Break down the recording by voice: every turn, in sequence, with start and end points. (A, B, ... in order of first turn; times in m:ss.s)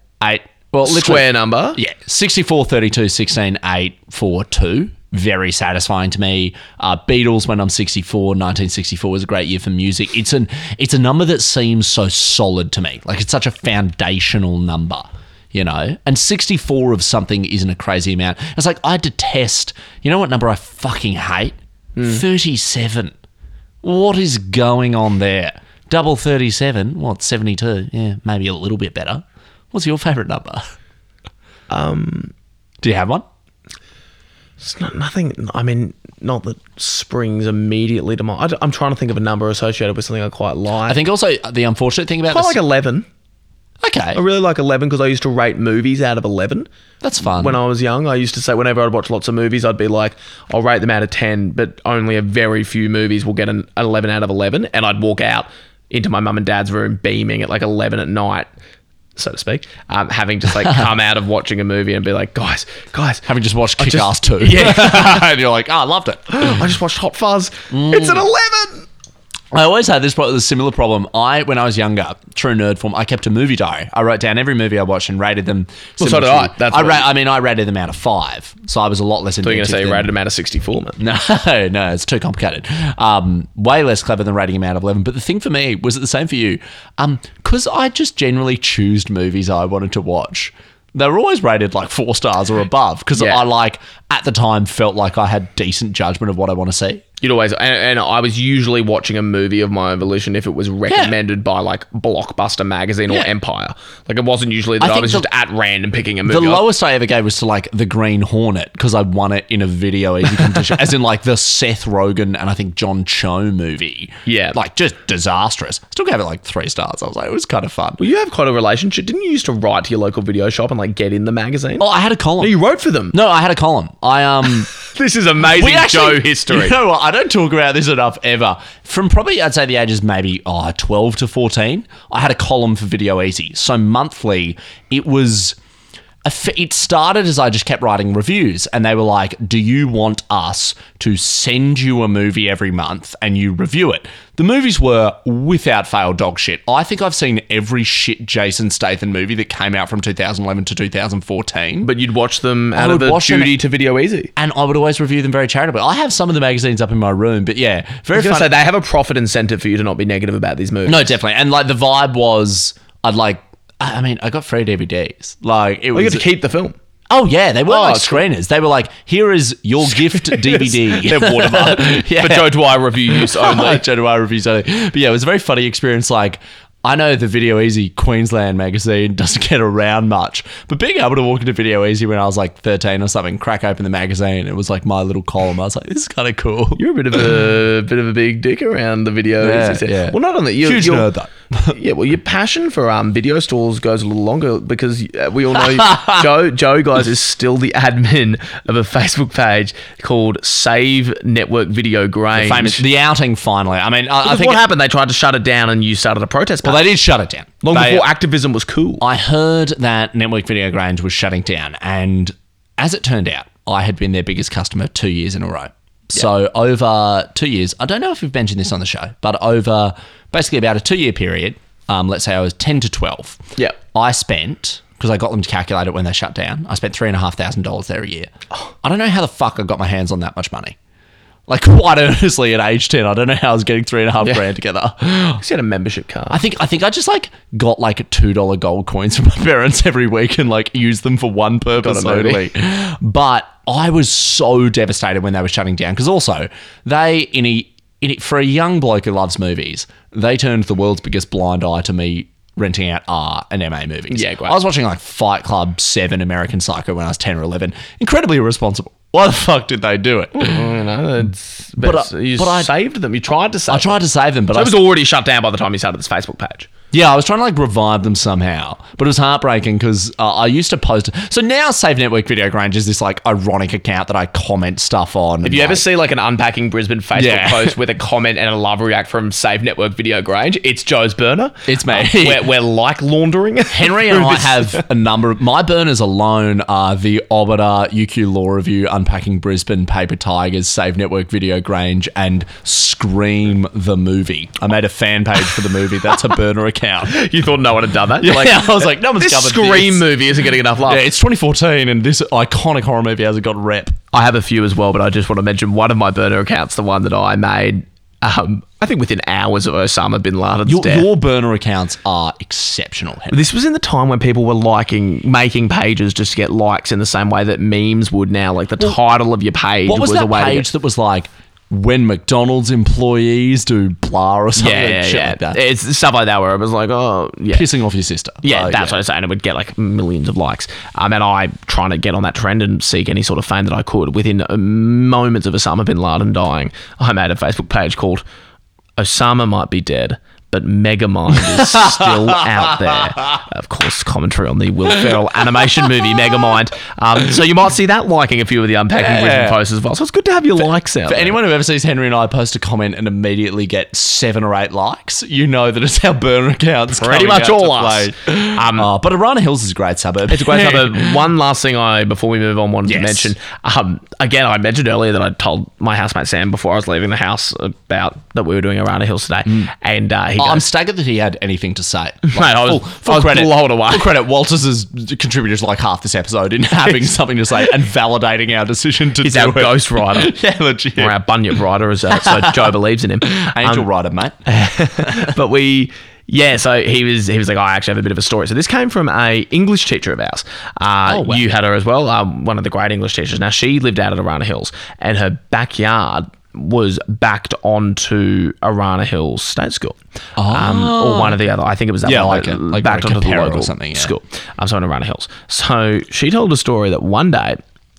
0:00.2-0:23.1 A
0:00.8-0:01.8 B
0:22.0-0:22.2 B
0:23.8-0:30.6 A
0:31.7-0:32.3 B
0:32.8-0:33.2 A
0:34.6-0:41.0 B
0:40.9-0:42.6 A
0:42.3-0:43.1 B
0:43.8-0:44.2 A
0:44.1-0:46.7 B
0:47.0-0:47.6 A
0:47.2-0:58.5 B
0:59.2-1:03.2 B
1:03.3-1:06.6 A
1:03.8-1:05.3 B
1:06.3-1:08.9 B
1:07.7-1:08.2 A
1:09.5-1:20.1 A
1:16.0-1:17.1 B
1:19.4-1:21.0 B
1:21.0-1:37.0 A
1:33.1-1:33.4 B
1:37.2-1:46.6 B
1:40.9-1:41.1 A
1:44.8-1:45.3 A
1:46.3-1:58.0 A
1:54.3-1:54.6 B
1:58.0-2:01.9 B
2:01.8-2:02.5 A
2:02.4-2:03.1 B
2:03.1-2:04.7 A
2:04.8-2:06.8 B
2:05.5-2:15.6 A
2:16.2-2:31.9 A
2:31.8-2:34.3 B
2:32.8-2:33.6 A
2:34.4-2:38.5 A
2:38.1-2:41.1 B
2:40.9-2:46.2 A
2:45.9-2:46.7 B
2:47.1-3:07.2 A
2:47.7-2:48.2 B
2:50.0-2:53.8 B
3:06.8-3:11.1 B
3:09.4-3:11.7 A
3:11.7-3:22.8 B
3:15.6-3:16.3 A
3:22.3-3:24.6 A
3:24.2-3:26.9 B
3:26.6-3:28.1 A
3:27.6-3:29.0 B
3:29.0-3:48.3 A
3:48.8-3:50.8 A
3:51.5-3:55.4 A
3:55.4-3:56.4 B
3:56.3-4:20.7 A
4:01.8-4:02.5 B
4:14.1-4:14.6 B
4:20.3-4:24.0 B
4:21.8-4:22.7 A
4:23.7-4:24.8 A
4:24.5-4:26.7 B
4:26.9-4:35.8 A
4:35.4-4:44.8 B
4:37.1-4:37.8 A
4:41.7-4:42.5 A
4:43.7-4:57.1 A
4:57.1-5:01.0 B
4:58.2-5:00.1 A
5:00.9-5:04.0 A
5:04.1-5:11.1 B
5:10.6-5:13.5 A
5:13.3-5:20.7 B
5:19.9-5:25.6 A
5:24.6-5:27.7 B
5:27.5-5:29.0 A
5:28.4-5:38.2 B
5:39.0-5:51.4 B
5:41.5-5:43.3 A
5:49.0-5:49.6 A
5:51.1-6:01.3 A
5:57.0-5:58.9 B
6:00.3-6:10.6 B
6:02.9-6:03.3 A
6:10.4-6:21.2 A
6:12.2-6:14.1 B
6:16.8-6:17.1 B
6:19.2-6:20.3 B
6:21.0-6:23.9 B
6:22.1-6:22.7 A
6:23.3-6:24.4 A
6:24.4-6:40.0 B
6:25.0-6:25.3 A
6:31.0-6:31.4 A
6:40.4-6:41.4 A
6:40.5-6:47.6 B
6:42.0-6:44.1 A